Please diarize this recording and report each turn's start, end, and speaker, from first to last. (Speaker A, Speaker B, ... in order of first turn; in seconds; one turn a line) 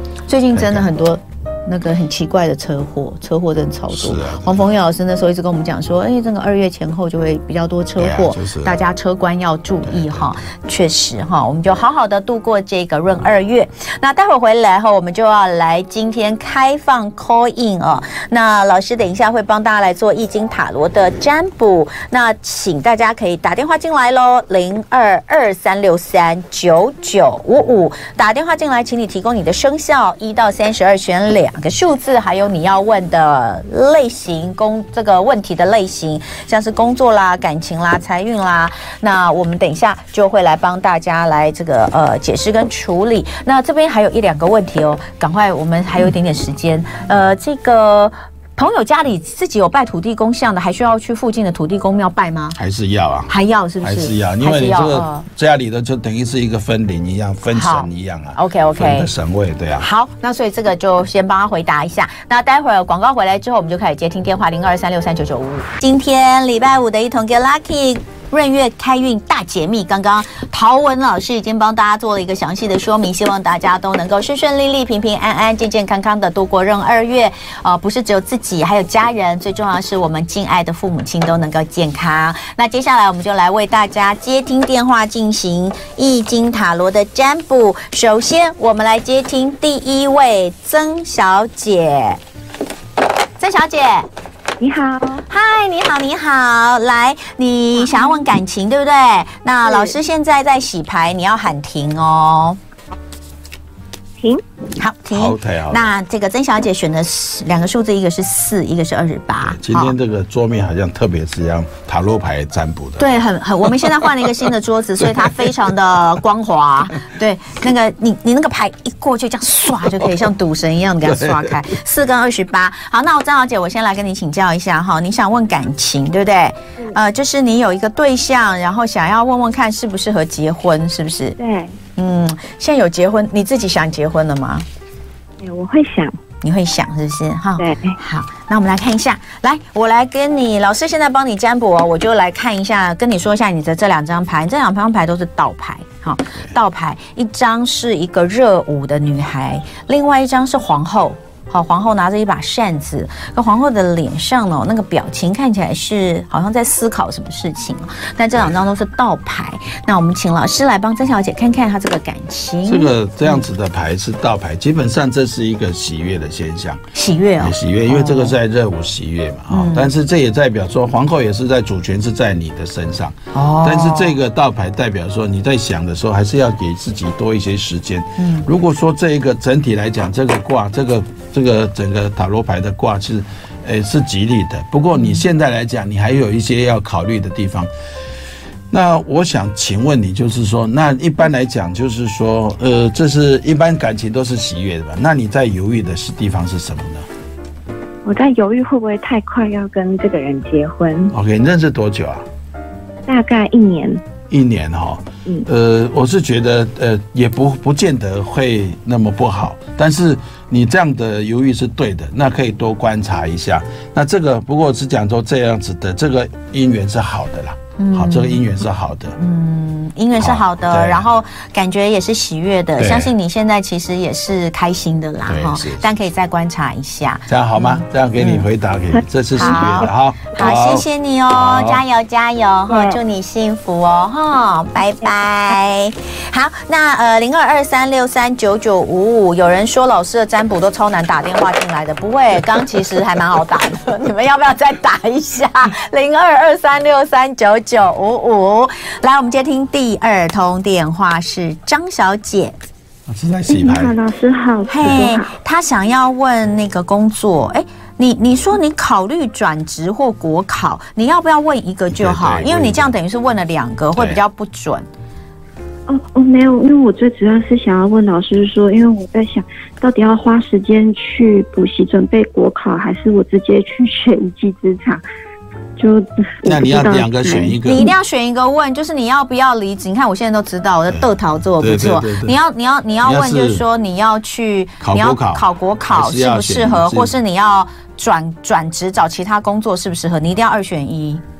Speaker A: 0.3-52.6
Speaker B: 0.5-0.9
Speaker B: 3.9-4.7
Speaker B: 8.0-8.8
Speaker B: 9.8-10.4
Speaker B: 52.5-53.3
Speaker A: 53.3-55.2
Speaker B: 53.8-59.9
Speaker A: 57.5-59.1
Speaker A: 59.8-92.2
Speaker A: 93.4-94.1
Speaker C: 94.6-95.2
Speaker A: 95.3-102.6
Speaker A: 104.8-109.9
Speaker B: 105.1-105.9
Speaker B: 109.4-115.7
Speaker A: 113.0-131.3
Speaker B: 121.0-121.6
Speaker C: 131.4-131.8
Speaker A: 132.0-134.6
Speaker C: 135.4-136.2
Speaker A: 136.4-163.4
Speaker C: 137.6-138.0
Speaker B: 162.6-166.8
Speaker A: 166.9-168.3
Speaker B: 167.4-187.7
Speaker A: 169.5-169.9
Speaker A: 173.3-174.2
Speaker A: 178.2-178.5
Speaker A: 184.9-185.2
Speaker B: 188.7-197.1
Speaker C: 198.0-201.1
Speaker B: 201.1-202.2
Speaker C: 203.1-204.0
Speaker B: 204.3-219.2
Speaker A: 217.8-218.5
Speaker A: 219.2-228.4
Speaker B: 220.2-221.1
Speaker B: 222.8-223.1
Speaker B: 225.3-225.9
Speaker B: 227.3-231.8
Speaker C: 228.9-229.9
Speaker A: 229.3-252.6
Speaker C: 232.7-233.0
Speaker B: 253.1-253.9
Speaker C: 253.5-255.3
Speaker A: 254.7-264.9
Speaker B: 261.9-262.9
Speaker B: 263.9-264.2
Speaker C: 265.9-275.0
Speaker C: 275.8-277.9
Speaker B: 276.4-277.9
Speaker A: 277.6-291.2
Speaker B: 280.9-282.4
Speaker B: 283.0-283.6
Speaker B: 284.8-287.1